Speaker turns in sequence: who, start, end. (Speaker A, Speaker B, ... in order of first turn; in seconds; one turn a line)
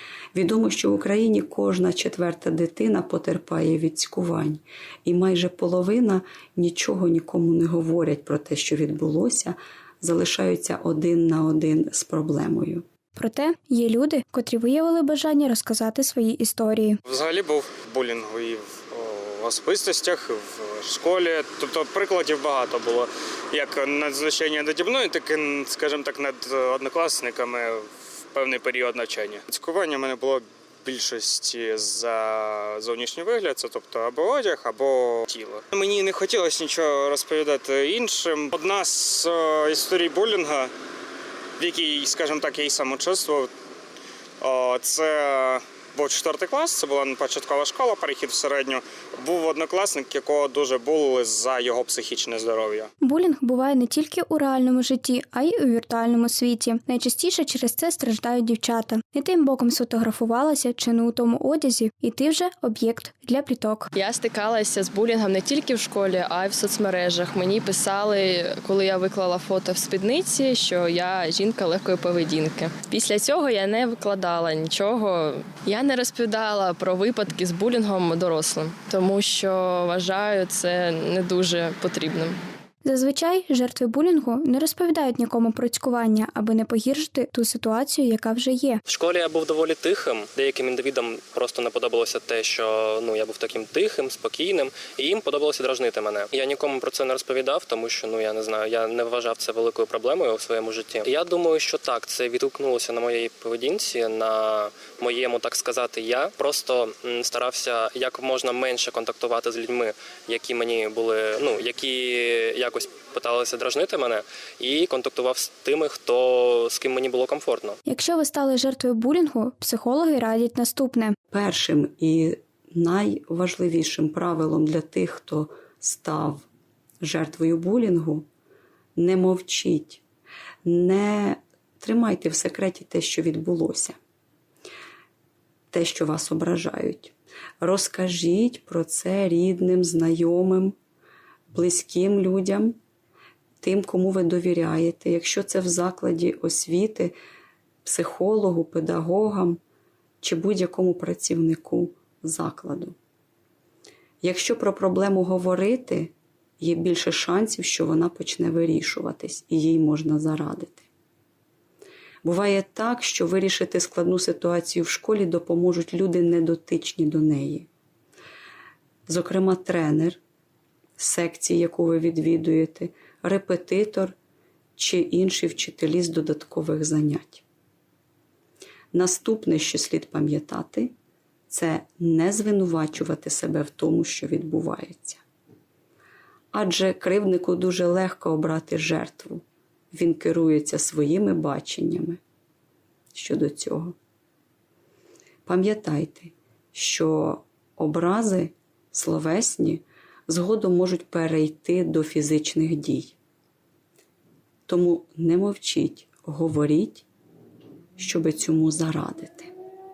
Speaker A: 0.3-12.8
Speaker B: 13.1-17.0
Speaker C: 17.0-40.7
Speaker C: 41.6-43.5
Speaker C: 44.4-52.9
Speaker B: 53.0-63.9
Speaker D: 63.9-82.4
Speaker B: 82.8-88.8
Speaker E: 88.8-117.8
Speaker B: 117.8-121.2
Speaker A: 121.3-126.5
Speaker A: 127.0-128.3
Speaker A: 128.9-130.0
Speaker A: 130.6-134.0
Speaker A: 135.7-140.8
Speaker A: 141.5-142.8
Speaker A: 143.6-147.1
Speaker A: 147.8-149.6
Speaker A: 150.2-152.9
Speaker A: 154.2-160.9
Speaker A: 162.2-167.7
Speaker A: 169.1-170.2
Speaker A: 171.0-174.2
Speaker A: 174.8-177.4
Speaker A: 178.9-180.9
Speaker A: 181.5-185.2
Speaker A: 186.5-192.2
Speaker A: 193.1-193.9
Speaker A: 195.4-203.2
Speaker A: 204.7-207.0
Speaker A: 208.0-209.5